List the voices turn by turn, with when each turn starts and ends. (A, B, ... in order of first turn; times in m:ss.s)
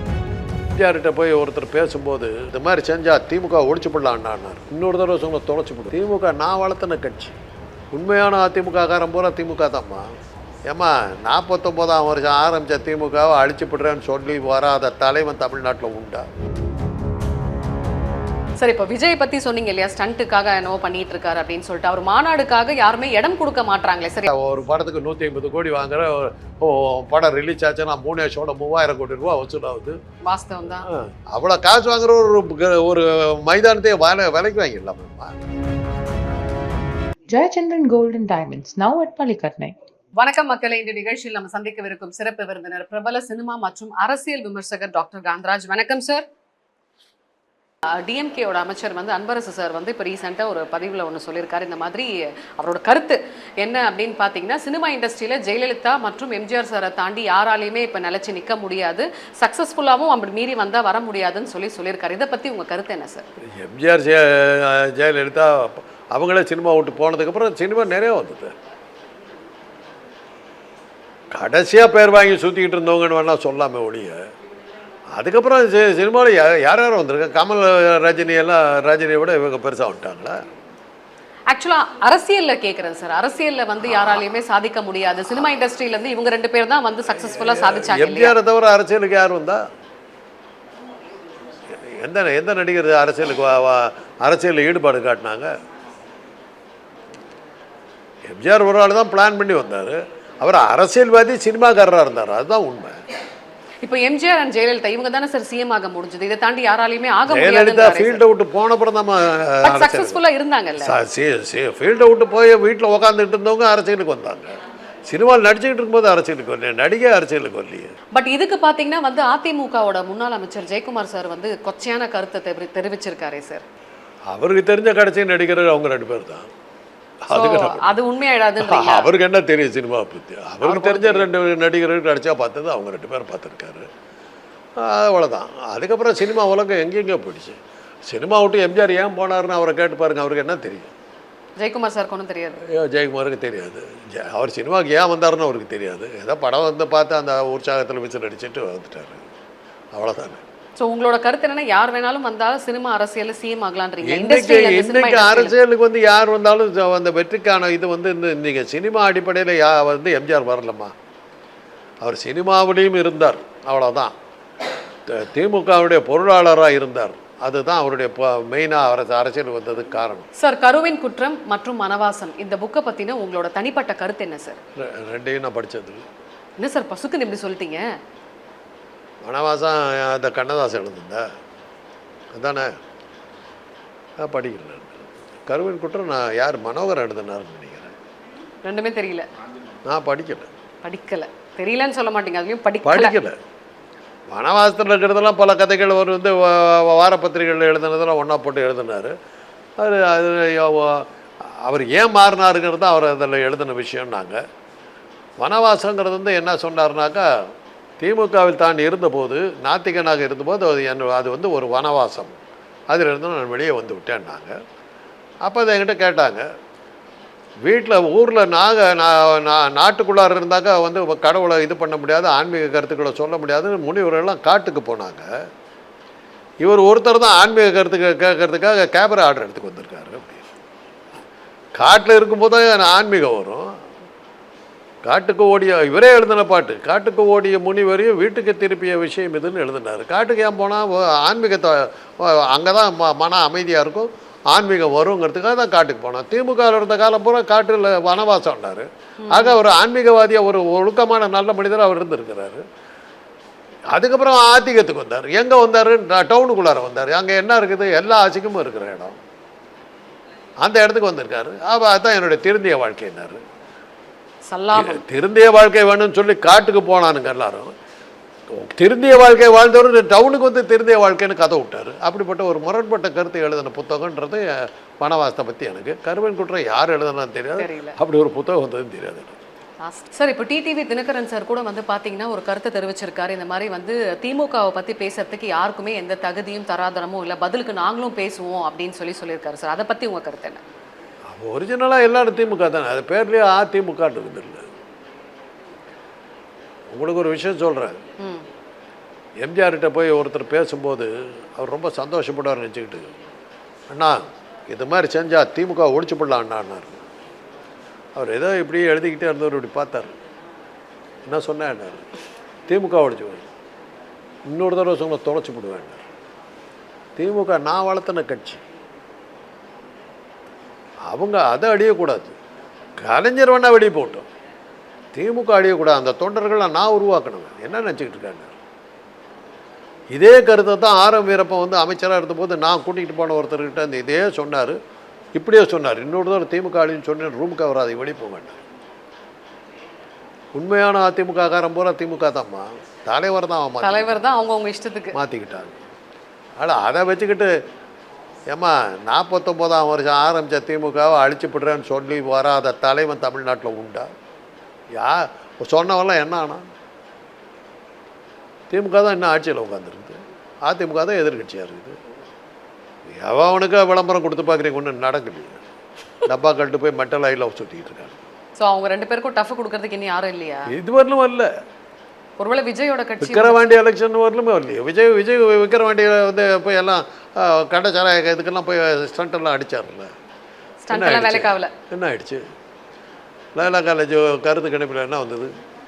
0:00.7-0:07.4 A
0:07.9-0:10.1 A
0:10.7-0:16.2 A
0:18.6-0:24.3 B
0:24.2-0:30.0 A
0:30.2-0:30.8 B
0:30.9-0:35.3 A
0:37.3-0:39.7 C
0:40.2-0:46.2 B
0:48.0-1:03.2 B
1:03.5-1:08.5 A
1:11.3-1:14.2 A
1:15.1-1:20.4 A
1:21.5-1:28.4 B
1:27.4-1:29.6 A
1:31.8-1:35.5 A
1:38.3-1:43.0 A
1:43.8-1:48.2 B
1:47.3-1:50.2 A
1:49.6-1:51.0 B
1:50.8-1:54.5 A
1:55.1-1:57.9 A
1:58.1-2:03.6 B
2:04.3-2:06.5 A
2:07.2-2:08.0 A
2:07.3-2:09.1 B
2:08.6-2:13.9 A
2:10.6-2:11.3 B
2:14.8-2:20.9 A
2:21.6-2:22.6 B
2:22.6-2:29.3 A
2:29.9-2:30.4 A
2:30.8-2:35.6 B
2:34.0-2:40.9 A
2:42.0-2:44.1 A
2:45.1-2:50.3 A
2:50.4-2:54.6 B
2:54.8-2:56.0 A
2:56.6-2:57.8 B
2:59.2-3:01.2 A
3:02.3-3:02.7 A
3:04.2-3:07.9 A
3:08.6-3:09.3 B
3:09.8-3:10.5 A
3:10.8-3:13.2 B
3:12.8-3:13.4 A
3:14.3-3:19.1 A
3:19.8-3:24.4 A
3:25.4-3:27.3 A
3:28.0-3:32.3 A
3:32.9-3:34.6 A
3:35.4-3:36.5 A
3:37.6-3:45.3 A
3:46.6-3:50.4 A
3:51.8-3:53.7 A
3:55.0-4:12.6 A
4:09.2-4:09.6 B
4:13.9-4:19.2 A
4:20.6-4:23.4 A
4:24.5-4:25.0 B
4:24.7-4:27.7 A
4:28.5-4:39.4 A
4:37.6-4:38.0 B
4:39.8-4:50.6 B
4:51.3-4:54.7 A
4:56.9-4:58.0 A
4:58.2-4:58.4 B
4:59.4-5:03.1 A
5:03.9-5:07.0 A
5:08.1-5:10.1 A
5:11.2-5:12.0 A
5:12.7-5:13.5 A
5:14.5-5:16.0 A
5:17.2-5:18.6 A
5:21.1-5:22.4 A
5:23.0-5:24.2 A
5:25.1-5:28.6 A
5:30.1-5:34.8 A
5:35.3-5:38.6 A
5:40.5-5:44.2 A
5:43.8-5:45.1 B
5:45.1-5:45.8 A
5:46.6-5:47.5 A
5:48.5-5:54.1 A
5:54.9-5:56.6 A
5:58.7-6:02.0 A
6:03.1-6:05.6 A
6:06.2-6:08.2 A
6:08.6-6:10.7 B
6:10.7-6:11.5 A
6:12.4-6:13.6 B
6:13.2-6:20.1 A
6:20.8-6:21.7 B
6:20.9-6:22.4 A
6:23.5-6:25.5 A